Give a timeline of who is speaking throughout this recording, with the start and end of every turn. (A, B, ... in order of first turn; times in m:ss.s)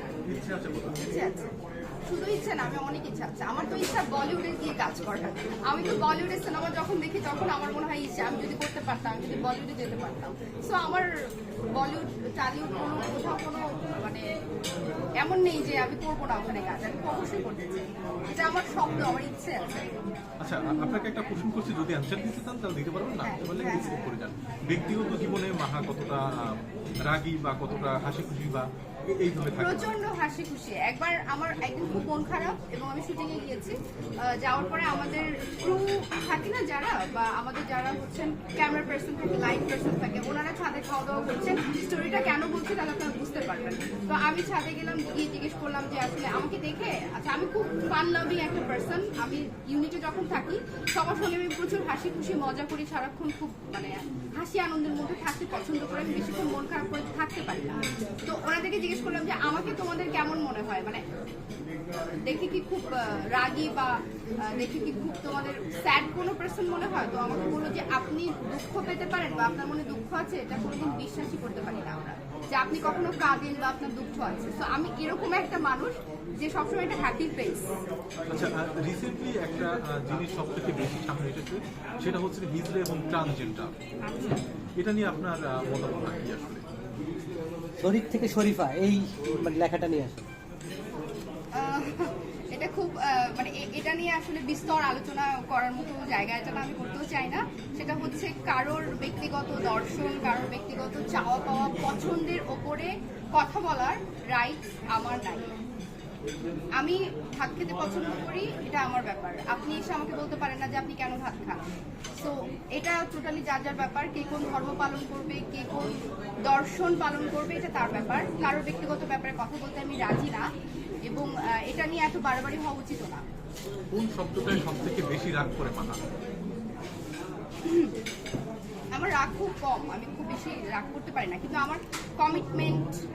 0:00.3-0:01.0 A
0:01.0-0:01.5 B
0:02.1-0:11.1 B
0:11.8-0:14.2 B
0:15.2-0:19.9 B
0:20.4-0:29.9 A
0:23.2-0:24.1 B
0:29.6-1:01.0 B
1:02.2-1:03.9 B
1:04.5-1:17.7 B
1:18.3-1:26.6 A
1:24.0-1:24.4 B
1:27.8-1:30.2 C
1:31.5-1:45.4 B
1:46.8-1:51.6 B
1:52.2-1:55.9 B
1:56.5-2:00.4 B
2:01.1-2:03.2 B
2:03.9-2:06.0 A
2:07.6-2:07.9 B
2:08.9-2:13.0 B